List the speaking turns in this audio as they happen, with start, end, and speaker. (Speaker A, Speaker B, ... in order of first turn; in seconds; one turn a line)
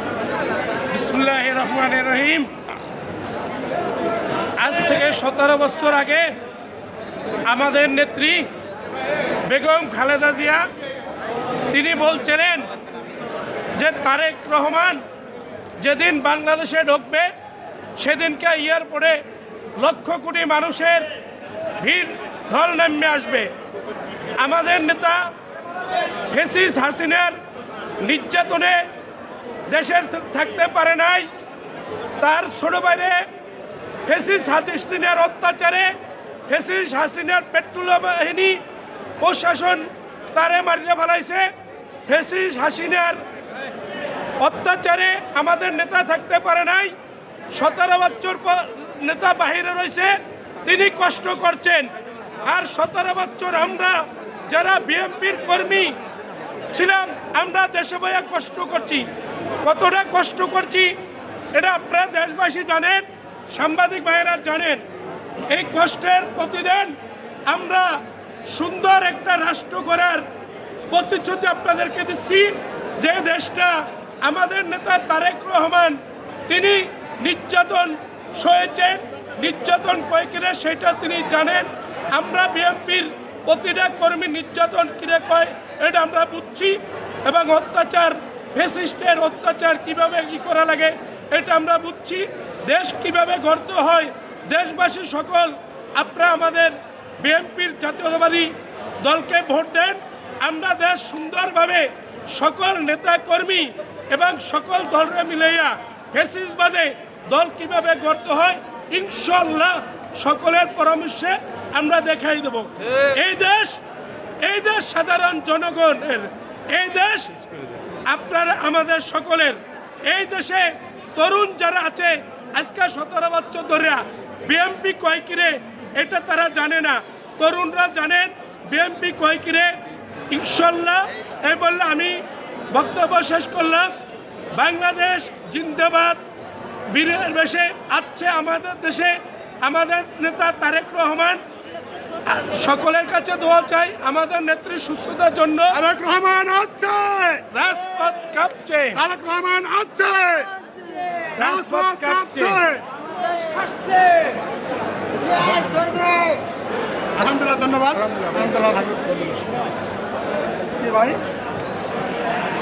Speaker A: 0.9-2.5
Speaker A: 4.6-6.3
Speaker A: 7.5-8.5
Speaker A: 9.4-10.7
Speaker A: 11.7-12.7
Speaker A: 13.7-15.0
Speaker A: 15.8-17.3
Speaker A: 18.0-19.2
Speaker A: 19.8-21.1
Speaker A: 21.8-23.5
Speaker A: 24.4-25.3
Speaker A: 26.3-27.4
Speaker A: 28.0-28.8
Speaker A: 29.7-31.3
Speaker A: 32.2-33.2
Speaker A: 34.0-35.9
Speaker A: 36.5-38.6
Speaker A: 39.2-41.5
Speaker A: 42.0-43.2
Speaker A: 44.4-46.9
Speaker A: 47.5-51.9
Speaker A: 52.4-55.9
Speaker A: 56.7-59.1
Speaker A: 59.6-60.9
Speaker A: 61.5-64.8
Speaker A: 65.5-66.9
Speaker A: 67.5-67.9
Speaker A: 68.5-70.2
Speaker A: 70.9-113.8
Speaker A: 114.4-117.3
Speaker A: 118.0-129.8
Speaker A: 130.3-133.9
Speaker A: 134.5-136.2
Speaker A: 136.9-141.4
Speaker A: 142.2-145.8
Speaker B: 145.8-147.4
Speaker A: 147.5-149.0
Speaker B: 149.0-154.4
Speaker A: 151.3-152.6
Speaker B: 155.2-156.4
Speaker B: 157.2-159.6
Speaker A: 157.9-158.5
Speaker B: 160.8-161.2